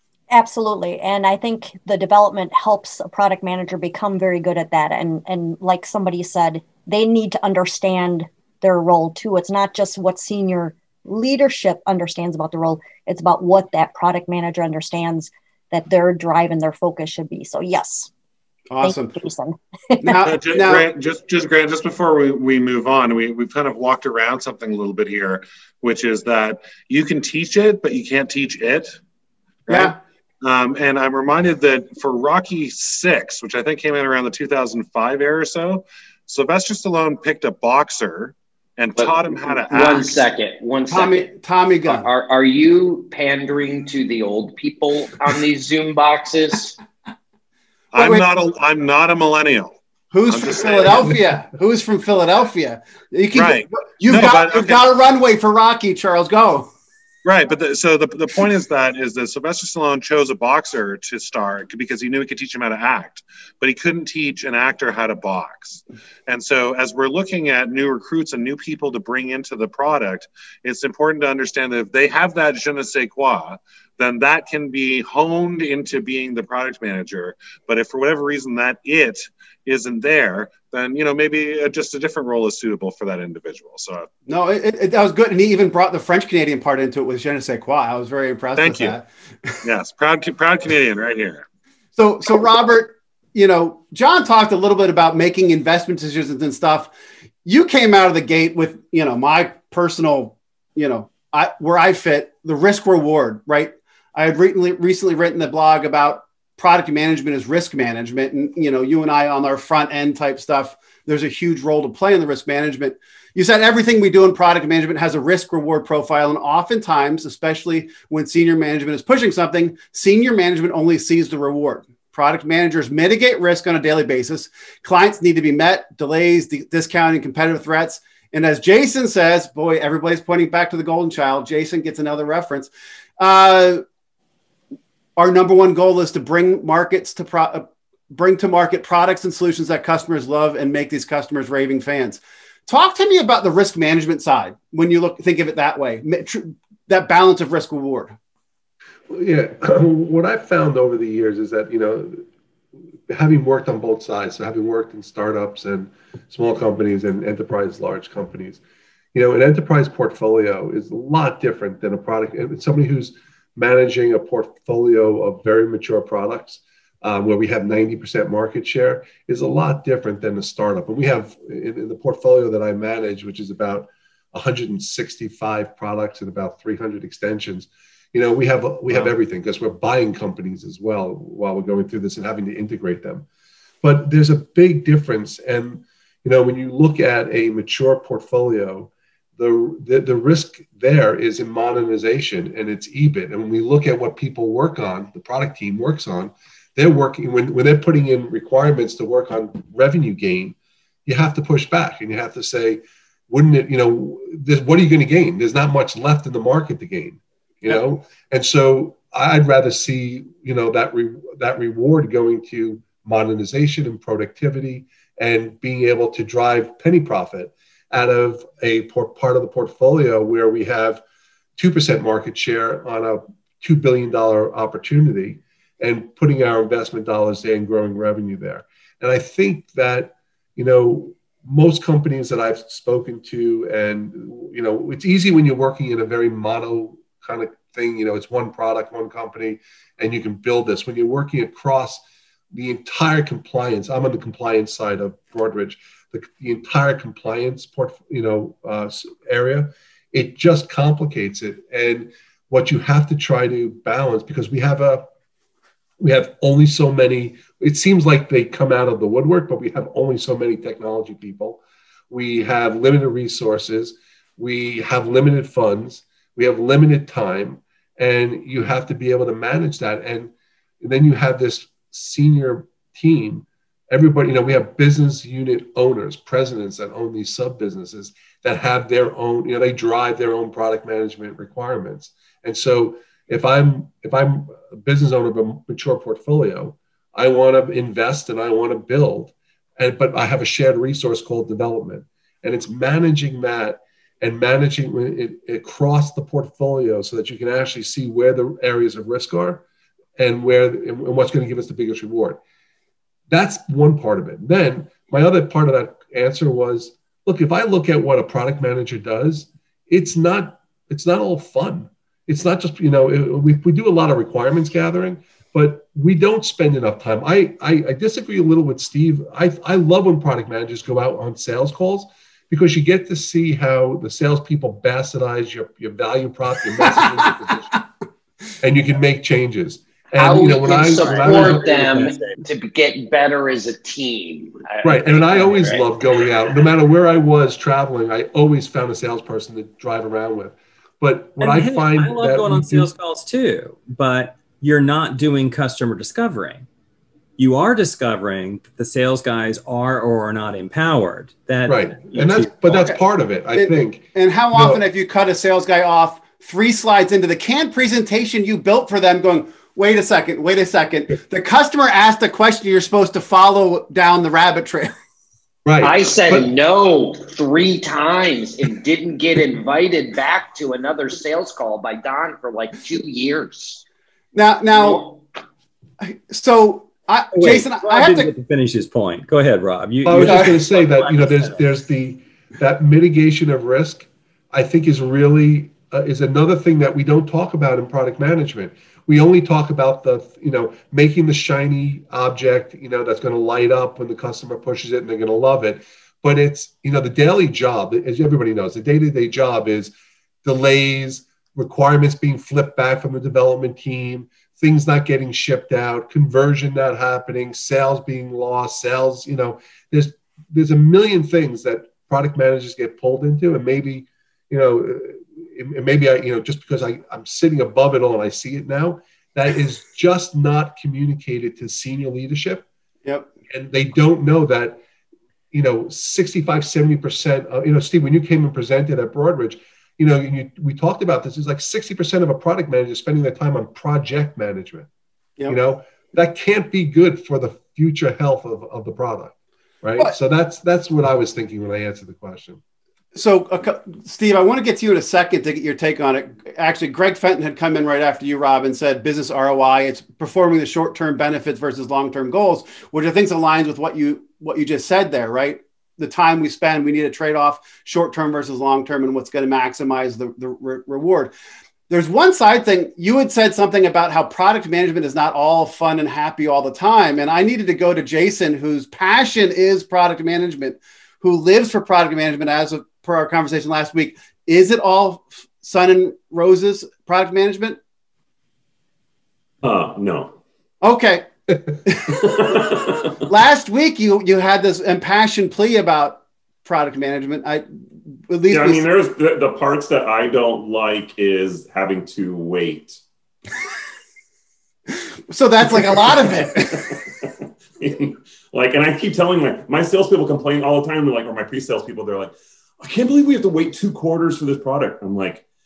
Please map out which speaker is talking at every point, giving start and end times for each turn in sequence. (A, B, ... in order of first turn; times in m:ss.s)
0:00.3-0:18.1 A
0:18.7-0:19.2 B
0:18.8-0:20.2 A
0:20.0-0:20.8 B
0:20.2-0:29.0 C
0:29.7-0:40.1 C
0:29.7-0:29.9 B
0:39.0-0:41.3 D
0:40.9-0:42.1 B
0:41.8-0:46.8 D
0:47.9-0:51.2 C
0:48.0-0:48.2 B
0:50.1-0:56.7 B
0:53.3-0:54.8 C
0:57.2-1:24.1 C
1:24.3-1:29.5 B
1:28.6-1:29.0 C
1:29.6-1:31.4 C
1:32.0-1:36.9 B
1:37.4-2:13.8 B
2:15.2-2:28.1 B
2:29.1-2:32.2 E
2:33.1-2:38.6 E
2:39.1-3:03.2 E
3:03.8-3:41.0 E
3:41.6-4:15.1 E
4:16.0-4:59.6 E
5:00.2-5:02.4 E
5:03.3-5:27.7 E
5:26.8-5:27.3 B
5:28.6-5:32.0 E
5:30.2-5:36.3 D
5:31.0-5:32.4 F
5:34.8-5:42.9 E
5:41.4-5:46.6 F
5:47.4-5:52.8 F
5:51.6-5:54.8 E
5:52.7-5:53.0 B
5:53.5-6:04.9 B
6:05.6-6:06.5 E
6:05.8-6:13.8 D
6:14.3-6:15.0 B
6:14.7-6:15.2 D
6:16.0-6:18.3 B
6:17.3-6:21.6 F
6:20.0-6:39.9 E
6:20.2-6:20.6 B
6:40.4-7:02.6 E
7:03.5-7:04.8 E
7:05.5-7:14.9 E
7:15.5-7:22.6 E
7:23.1-7:41.3 B
7:41.9-7:57.8 B
7:59.6-8:00.4 G
8:00.8-8:01.3 B
8:01.8-8:07.6 B
8:02.1-8:03.2 G
8:08.3-8:08.8 B
8:08.5-8:13.0 G
8:15.3-8:17.0 B
8:15.7-8:25.4 G